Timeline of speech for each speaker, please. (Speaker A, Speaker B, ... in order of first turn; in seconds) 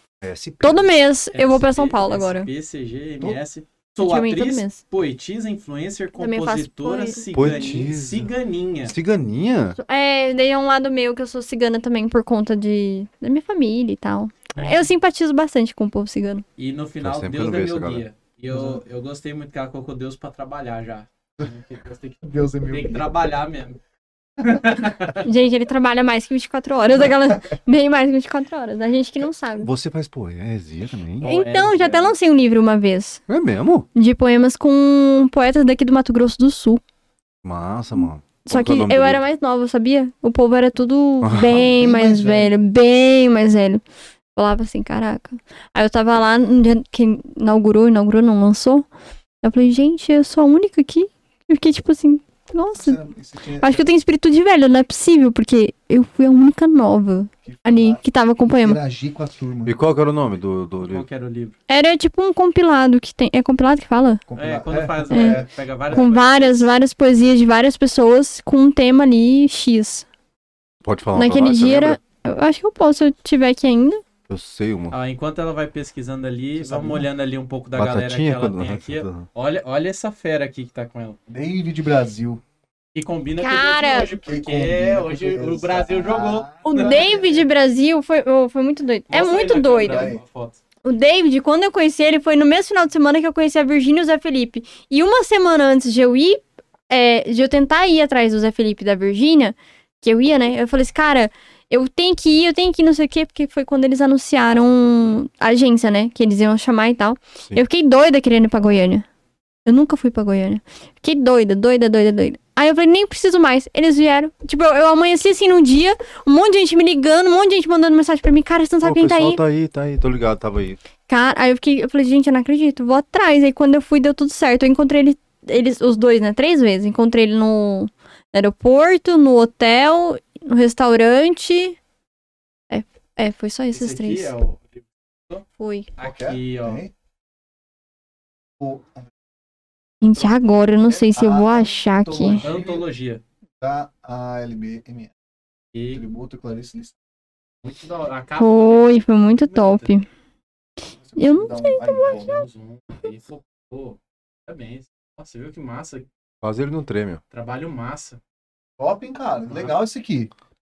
Speaker A: 0.2-0.9, 7.3-8.3, 8.8-9.8, 17.0-18.0, 29.6-31.3, 33.3-33.9, 37.4-39.2, 41.2-41.6, 59.6-61.0, 70.8-72.0, 74.3-74.9, 77.7-79.2, 118.8-120.8, 156.4-157.2
Speaker B: 0.6-2.5, 4.0-4.8, 6.2-7.2, 9.8-16.4, 25.2-29.7, 31.2-33.2, 33.9-36.8, 38.5-43.8, 44.4-48.9, 49.4-53.0, 53.6-58.8, 61.7-64.2, 65.1-65.4, 65.9-70.0, 71.1-74.0, 83.4-84.2, 86.6-90.1, 90.8-109.0, 109.7-119.4, 121.1-131.8, 132.7-134.3, 135.6-135.9, 140.0-142.4, 148.4-150.0, 151.2-152.3
Speaker C: 1.3-8.9, 16.6-23.8, 24.4-25.2, 31.2-32.1, 60.8-61.5, 64.4-66.7, 74.9-81.2, 82.9-87.0, 89.1-90.6, 133.7-135.4, 136.0-136.8, 142.4-143.2, 145.7-146.0, 147.6-149.9, 152.1-156.1, 157.3-158.2
Speaker D: 18.5-18.8, 22.2-23.2, 41.5-42.5, 52.8-53.9, 57.4-59.8, 64.3-66.0, 76.6-77.1, 81.3-82.4, 84.2-87.4, 89.9-90.2, 136.0-136.9, 138.6-139.1, 140.8-142.8, 143.6-145.1, 145.9-146.9, 151.0-152.3, 158.8-160.3